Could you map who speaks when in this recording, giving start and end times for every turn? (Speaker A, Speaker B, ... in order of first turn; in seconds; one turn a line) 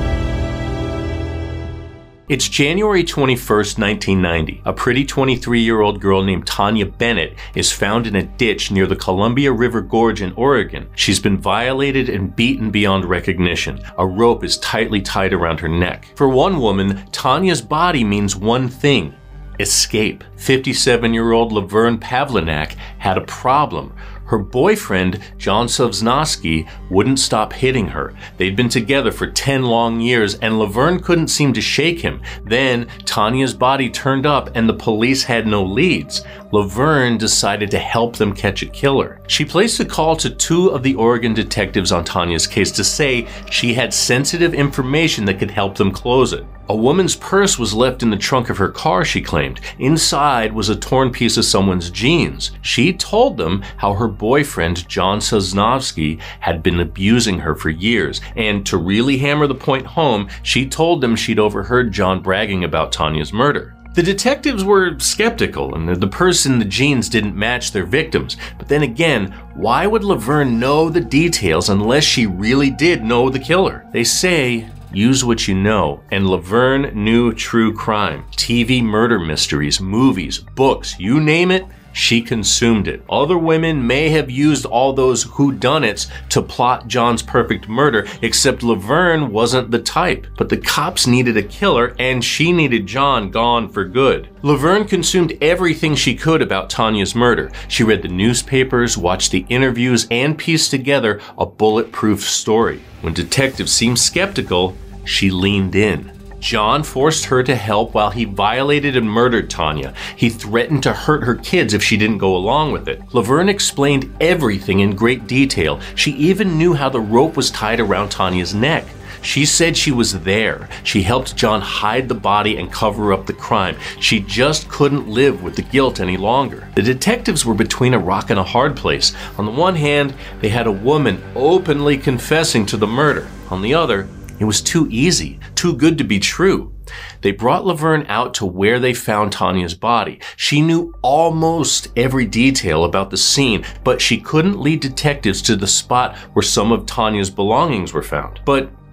Speaker A: 2.3-148.7